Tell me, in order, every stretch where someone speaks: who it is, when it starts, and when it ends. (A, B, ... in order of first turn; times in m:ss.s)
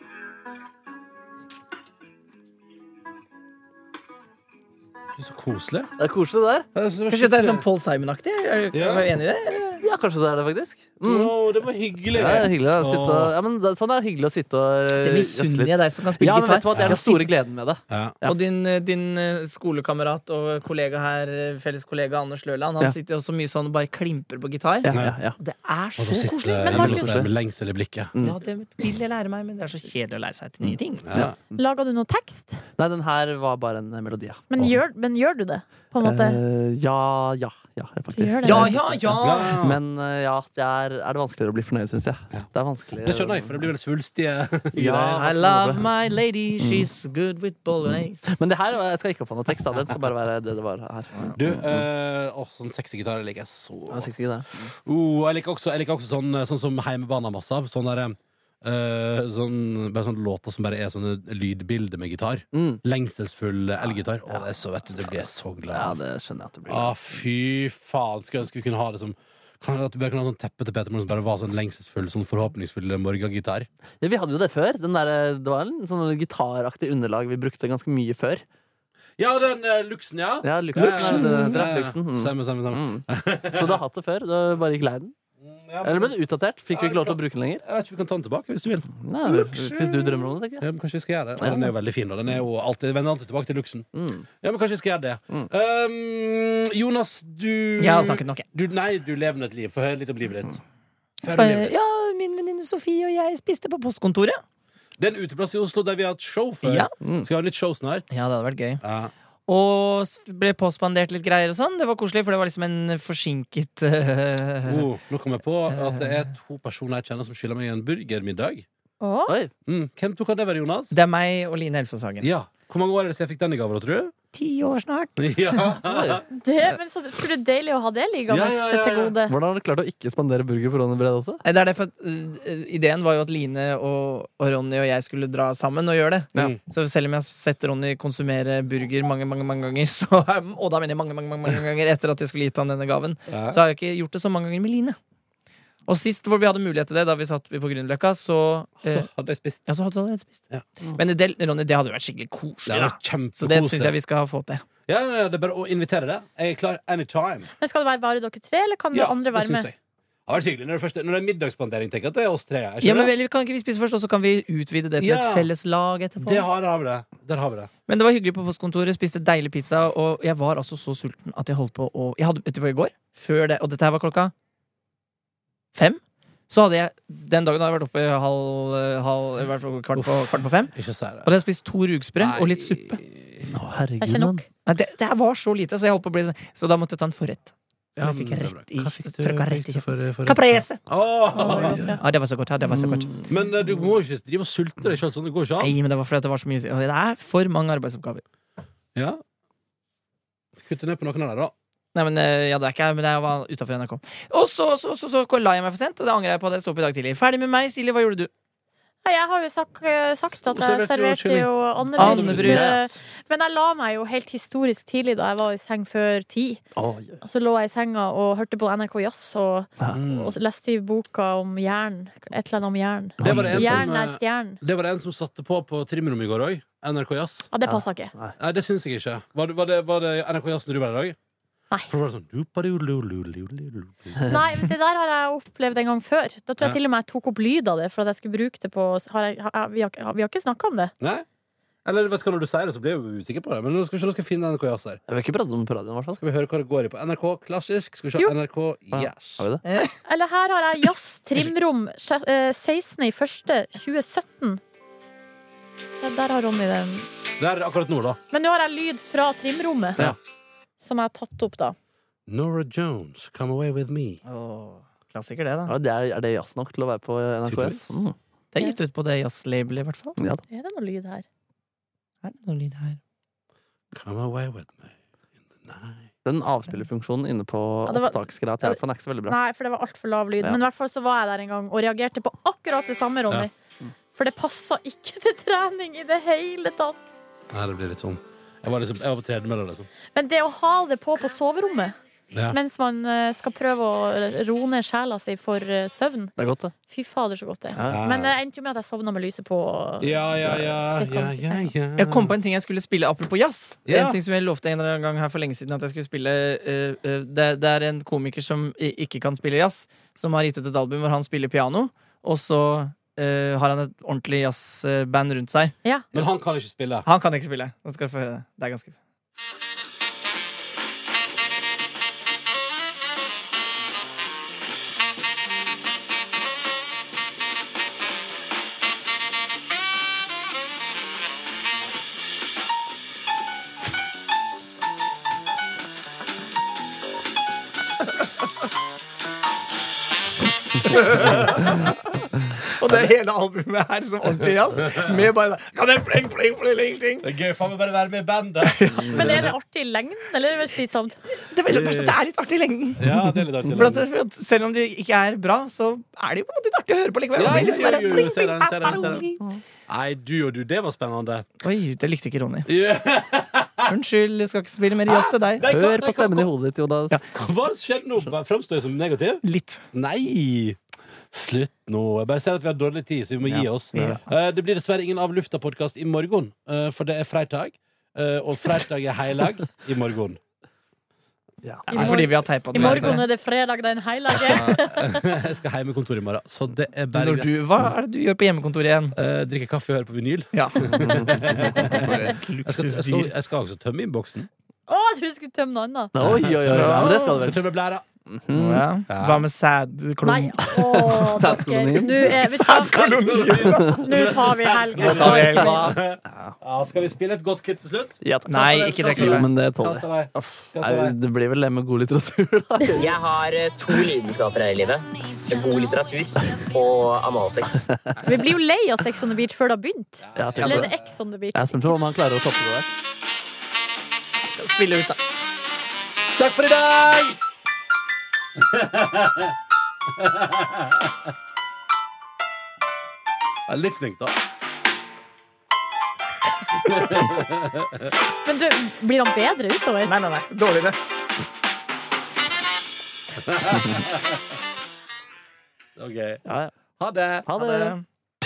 0:05.2-0:05.9 A
0:06.0-0:06.7 B
0:06.8-0:07.6 A
0:07.1-0:09.8 C
0:08.7-0:09.1 A
0:09.8-0:11.3 B
0:11.0-0:13.4 A
0:12.1-0:18.4 B
0:15.0-0:17.3 C
0:16.7-0:17.0 A
0:17.9-0:18.2 A
0:18.2-0:26.7 C
0:24.8-0:25.4 B
0:24.9-0:25.2 A
0:26.0-0:28.1 A
0:26.6-0:27.2 D
0:26.7-0:27.3 B
0:28.2-0:31.2 C
0:31.0-0:31.4 A
0:31.6-0:32.6 D
0:32.8-0:34.5 B
0:34.5-0:36.4 D
0:36.0-0:43.6 B
0:38.2-0:38.8 D
0:38.4-0:39.6 C
0:39.2-0:39.8 A
0:43.0-0:45.3 A
0:44.7-0:45.9 B
0:45.1-0:48.4 C
0:46.6-0:46.9 B
0:48.3-0:51.8 B
0:51.4-0:54.1 A
0:53.9-0:54.7 B
0:54.6-1:06.0 A
1:02.6-1:02.8 B
1:05.7-1:07.0 B
1:06.7-1:13.7 A
1:14.0-1:18.4 B
1:19.2-1:23.8 A
1:20.4-1:25.2 B
1:20.8-1:21.6 C
1:25.4-1:26.2 A
1:25.8-1:27.6 B
1:26.7-1:33.9 A
1:29.0-1:30.6 B
1:31.4-1:31.7 B
1:34.0-1:34.2 B
1:34.4-1:40.6 A
1:37.8-1:38.4 C
1:41.2-1:41.7 A
1:41.3-1:44.4 C
1:45.0-1:48.1 A
1:46.6-1:46.9 C
1:48.1-1:48.8 C
1:48.8-1:49.1 A
1:49.5-1:54.9 C
1:54.6-1:58.6 A
1:55.7-1:56.3 C
1:59.0-1:59.4 D
1:59.7-2:01.0 A
2:00.9-2:02.3 C
2:02.2-2:04.1 A
2:04.3-2:05.7 C
2:05.2-2:06.2 A
2:05.8-2:06.2 B
2:06.3-2:09.4 D
2:08.3-2:09.2 A
2:09.3-2:11.4 B
2:11.4-2:25.0 C
2:23.3-2:23.6 A
2:25.9-2:29.1 C
2:28.8-2:29.6 A
2:29.7-2:30.4 C
2:31.0-2:34.6 C
2:32.7-2:33.9 A
2:34.9-2:37.5 A
2:37.6-2:39.7 D
2:38.9-2:39.8 A
2:40.3-2:43.1 A
2:42.8-2:46.5 C
2:45.0-2:45.5 A
2:46.2-2:47.7 A
2:47.9-2:54.3 C
2:55.7-3:00.7 C
3:00.0-3:01.3 A
3:01.2-3:03.0 C
3:02.2-3:03.6 A
3:03.5-3:04.4 B
3:04.0-3:04.5 D
3:04.7-3:10.8 C
3:08.0-3:11.8 A
3:11.3-3:12.0 D
3:11.4-3:13.1 C
3:12.7-3:13.3 B
3:13.3-3:15.8 A
3:15.6-3:18.2 C
3:19.0-3:19.2 A
3:20.6-3:21.5 A
3:22.0-3:28.3 C
3:29.0-3:36.6 D
3:30.4-3:32.8 A
3:32.0-3:33.0 C
3:36.8-3:37.2 B
3:37.2-3:44.6 D
3:39.9-3:40.3 A
3:43.2-3:43.9 B
3:43.2-3:47.5 A
3:47.5-3:48.1 D
3:47.7-3:48.3 B
3:48.4-3:51.2 A
3:51.9-3:54.4 A
3:54.3-4:00.9 D
4:01.8-4:05.0 A
4:05.1-4:06.2 B
4:06.2-4:09.5 A
4:08.9-4:09.6 B
4:09.6-4:10.0 C
4:10.0-4:14.6 D
4:16.0-4:17.1 D
4:17.4-4:18.2 A
4:18.3-4:20.0 D
4:20.8-4:21.8 D
4:22.3-4:24.2 A
4:24.2-4:25.8 C
4:25.7-4:28.2 B
4:27.4-4:28.0 A
4:28.5-4:30.2 C
4:30.2-4:30.4 B
4:30.5-4:31.2 D
4:32.2-4:33.0 C
4:33.9-4:34.9 A
4:35.6-4:36.1 A
4:36.2-4:39.4 B
4:37.9-4:43.5 D
4:44.2-4:47.1 D
4:47.5-4:49.9 A
4:50.2-4:52.0 D
4:52.3-4:52.6 A
4:52.5-4:56.3 D
4:56.4-4:56.7 B
4:56.9-5:01.7 D
4:57.7-4:58.0 B
4:57.9-4:58.4 A
5:00.0-5:02.4 A
5:02.0-5:15.8 C
5:03.9-5:04.2 A
5:16.1-5:17.1 A
5:17.0-5:19.0 C
5:40.8-5:42.0 C
5:41.2-5:41.8 A
5:42.7-5:47.3 C
5:44.8-5:45.3 A
5:47.2-5:49.5 A
5:48.6-5:49.1 C
5:49.1-5:51.2 D
5:51.3-5:53.0 C
5:51.7-5:52.2 A
5:53.0-5:54.1 A
5:53.1-5:53.8 B
5:53.7-5:59.4 C
5:57.4-5:59.3 A
5:57.5-5:57.8 B
5:59.9-6:01.5 A
6:01.6-6:02.7 C
6:02.7-6:03.9 A
6:03.9-6:05.7 C
6:05.1-6:06.5 A
6:05.7-6:07.2 B
6:07.3-6:10.8 A
6:09.4-6:09.8 C
6:11.3-6:20.4 A
6:13.4-6:14.2 B
6:13.9-6:14.2 C
6:21.9-6:25.3 D
6:21.9-6:23.2 C
6:22.7-6:23.2 A
6:24.3-6:27.5 A
6:27.1-6:29.2 C
6:29.2-6:34.5 A
6:30.5-6:33.3 C
6:31.6-6:32.0 D
6:34.9-6:36.1 D
6:36.2-6:37.6 B
6:36.2-6:38.0 A
6:36.8-6:37.0 C
6:36.8-6:37.5 D
6:38.3-6:38.8 B
6:38.5-6:41.2 C
6:39.1-6:39.5 A
6:40.2-6:46.0 D
6:40.8-6:42.3 B
6:42.2-6:44.0 C
6:43.1-6:51.2 A
6:43.7-6:44.0 B
6:45.0-6:46.0 C
6:45.3-6:45.7 B
6:48.2-6:53.1 B
6:48.5-6:49.5 C
6:53.0-6:57.9 E
6:58.2-7:02.0 D
7:00.2-7:01.0 A
7:00.4-7:00.9 B
7:01.6-7:02.9 B
7:04.6-7:05.2 C
7:06.3-7:07.4 A
7:08.6-7:09.6 A
7:10.1-7:11.2 A
7:13.7-7:14.4 A
7:16.8-7:18.1 A
7:18.4-7:20.1 D
7:20.0-7:21.0 C
7:23.4-7:24.4 A
7:26.0-7:26.4 A
7:26.5-7:26.7 B
7:27.0-7:27.5 A
7:27.5-7:28.0 B
7:27.5-7:28.0 C